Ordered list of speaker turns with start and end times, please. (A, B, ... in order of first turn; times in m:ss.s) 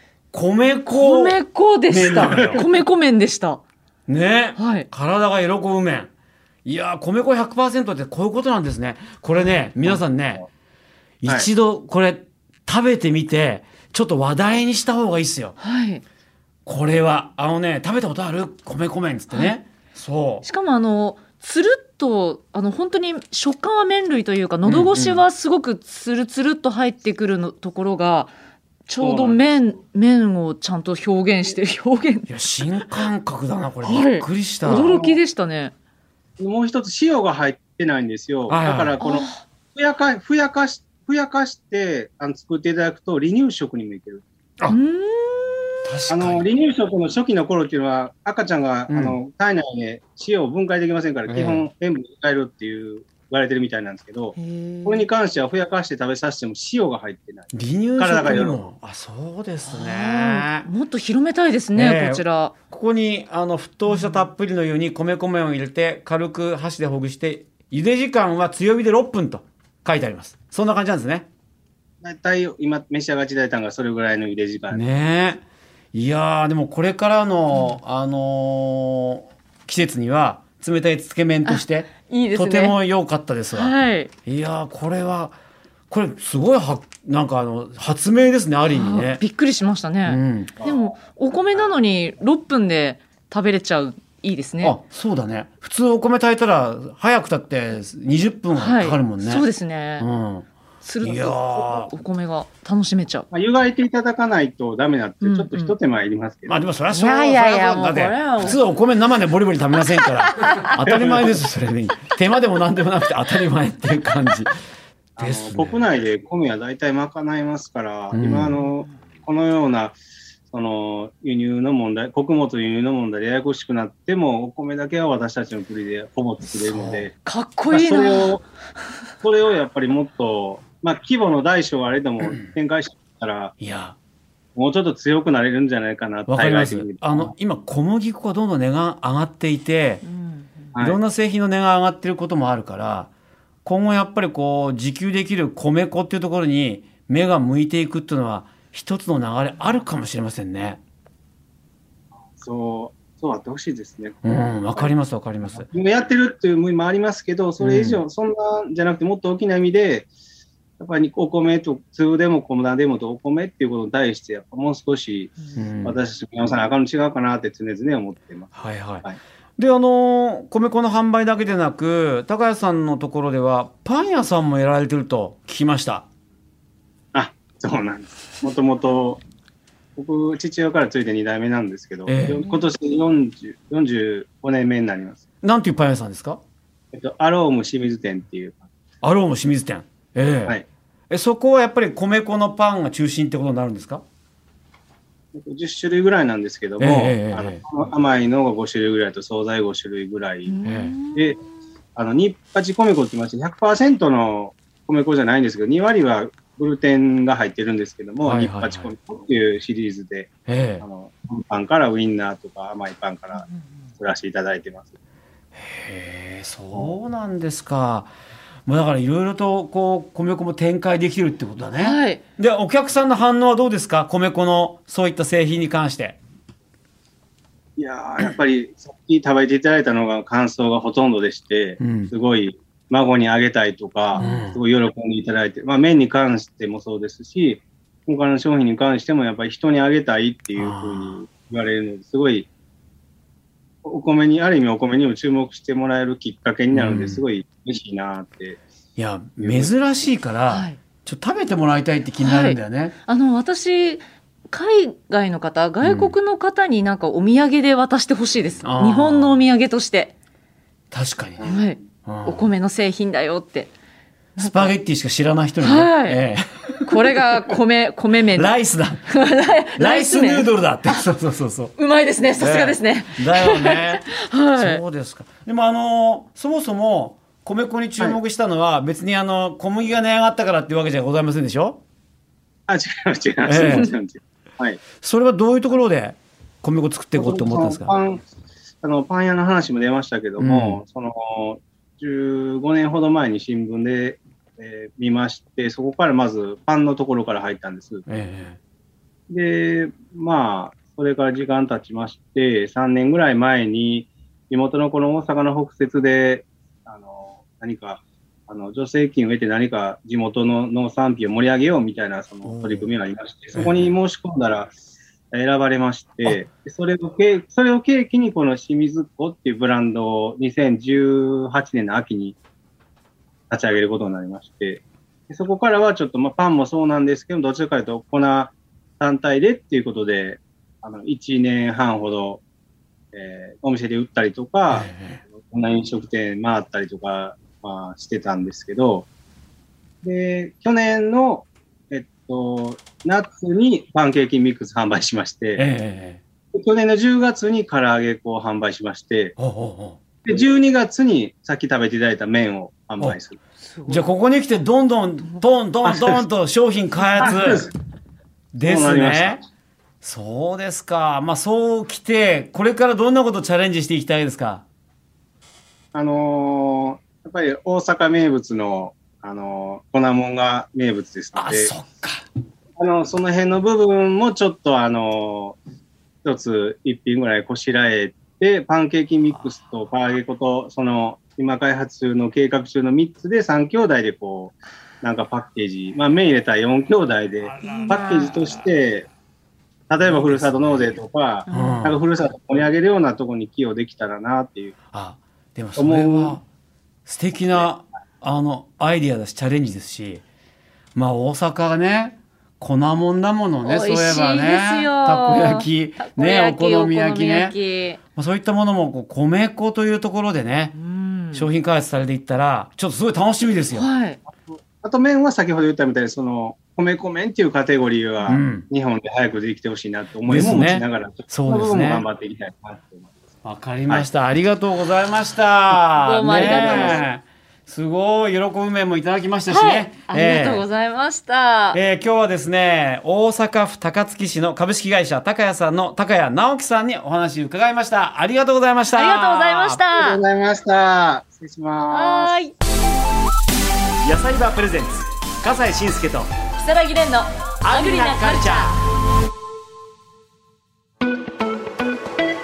0:00.3-0:02.6 A
0:00.9-0:03.6 B
0:02.3-0:02.6 C
0:04.1-0:06.1 A
0:04.6-0:04.9 B
0:06.6-0:10.4 A
0:11.2-0:15.5 A
0:15.6-0:16.0 B
0:16.7-0:20.4 A
0:20.4-0:28.3 B
0:24.6-0:25.2 A
0:28.9-0:32.3 B
0:29.0-0:29.8 C
0:32.3-0:35.0 A
0:33.8-0:35.7 B
0:34.6-0:35.2 C
0:36.4-0:44.2 C
0:38.5-0:39.0 A
0:39.0-0:39.4 B
0:44.7-0:45.8 B
0:45.9-0:46.4 A
0:46.1-0:58.6 C
0:48.9-0:49.2 A
0:51.3-0:51.7 A
0:54.4-0:55.1 B
0:57.5-1:00.7 A
0:59.7-1:02.5 B
1:01.7-1:11.3 A
1:03.9-1:04.3 B
1:12.0-1:14.8 C
1:14.7-1:23.7 A
1:17.5-1:17.8 B
1:21.5-1:22.8 B
1:23.5-1:24.1 B
1:24.2-1:25.3 A
1:25.9-1:29.2 A
1:28.7-1:34.8 B
1:30.0-1:30.5 A
1:30.6-1:31.0 C
1:34.6-1:39.5 A
1:38.5-1:40.1 B
1:40.0-1:40.5 A
1:40.8-1:43.3 B
1:41.0-1:41.9 A
1:43.3-1:46.6 C
1:45.2-1:45.8 B
1:46.5-1:54.5 A
1:46.9-1:48.7 B
1:55.2-2:00.0 C
1:55.2-1:55.8 A
1:58.1-1:58.6 A
2:00.5-2:07.1 C
2:06.5-2:07.1 A
2:07.2-2:08.4 B
2:07.7-2:08.4 C
2:09.2-2:13.5 C
2:12.2-2:12.5 A
2:13.6-2:14.0 A
2:14.6-2:17.3 C
2:16.3-2:20.0 A
2:20.0-2:20.7 B
2:20.7-2:21.0 C
2:20.8-2:23.1 A
2:23.6-2:30.8 A
2:32.4-2:34.9 C
2:34.2-2:35.7 A
2:35.5-2:40.1 C
2:37.6-2:38.0 A
2:40.8-2:49.2 C
2:45.6-2:46.0 A
2:48.6-2:49.1 A
2:49.6-2:56.1 A
2:57.1-2:59.2 C
3:00.0-3:05.2 C
3:02.1-3:02.5 A
3:05.4-3:06.4 A
3:06.9-3:08.7 C
3:09.0-3:10.6 A
3:11.1-3:14.0 A
3:15.3-3:20.6 C
3:16.8-3:17.6 A
3:20.5-3:21.4 B
3:20.6-3:21.0 A
3:22.0-3:33.5 C
3:28.2-3:28.9 A
3:30.5-3:30.8 A
3:34.0-3:34.9 C
3:35.6-3:38.1 A
3:38.7-3:46.2 A
3:41.8-3:42.2 B
3:47.8-4:02.5 C
3:51.8-3:52.1 A
3:54.2-3:54.6 A
4:00.6-4:01.2 A
4:03.8-4:08.6 C
4:06.7-4:07.2 A
4:09.0-4:12.9 A
4:09.4-4:09.7 C
4:10.5-4:10.8 B
4:12.2-4:20.1 B
4:15.8-4:16.1 A
4:18.6-4:19.4 A
4:20.9-4:22.4 A
4:21.4-4:23.7 B
4:24.4-4:24.8 B
4:24.4-4:27.2 A
4:25.6-4:26.2 B
4:26.9-4:28.6 B
4:28.3-4:29.0 A
4:29.1-4:31.0 B
4:29.8-4:31.7 A
4:31.8-4:34.8 B
4:32.4-4:41.8 A
4:42.7-4:44.8 C
4:43.4-4:43.9 A
4:45.0-4:48.0 A
4:47.2-4:48.2 C
4:48.8-4:58.0 C
4:50.4-4:50.8 A
4:58.1-4:58.6 A
4:59.3-5:14.7 C
5:12.4-5:12.9 A
5:13.5-5:14.0 A
5:15.3-5:22.4 C
5:23.5-5:32.4 C
5:33.1-5:39.1 C
5:34.7-5:35.2 A
5:40.0-5:45.6 C
5:45.6-5:46.2 A
5:46.5-5:49.4 C
5:49.4-5:50.0 A
5:50.2-5:53.4 C
5:53.7-5:54.0 B
5:53.9-5:57.7 A
5:55.8-5:56.2 C
5:57.2-5:57.7 C
5:58.5-5:59.4 A
5:58.6-5:59.4 C
6:00.0-6:04.6 A
6:05.9-6:11.8 C
6:11.4-6:12.2 A
6:12.8-6:15.6 C
6:16.2-6:29.1 C
6:27.6-6:28.3 B
6:27.6-6:28.4 A
6:29.9-6:34.8 C
6:30.0-6:31.0 A
6:31.5-6:31.9 B
6:31.5-6:32.0 A
6:34.9-6:36.4 A
6:35.8-6:36.4 C
6:37.1-6:40.2 A
6:41.0-6:47.6 A
6:43.6-6:48.0 B
6:48.2-6:50.8 A
6:50.7-6:51.5 B
6:51.3-6:53.9 A
6:53.7-6:54.2 B
6:54.4-7:03.2 C
6:58.3-6:58.7 A
7:00.3-7:02.1 A
7:03.4-7:10.6 A
7:05.9-7:07.1 B
7:06.5-7:06.8 C
7:09.5-7:11.8 B
7:11.7-7:19.8 A
7:18.9-7:20.2 B
7:19.9-7:22.4 C
7:21.9-7:22.5 B
7:24.0-7:26.3 A
7:26.6-7:28.8 B
7:27.6-7:28.8 A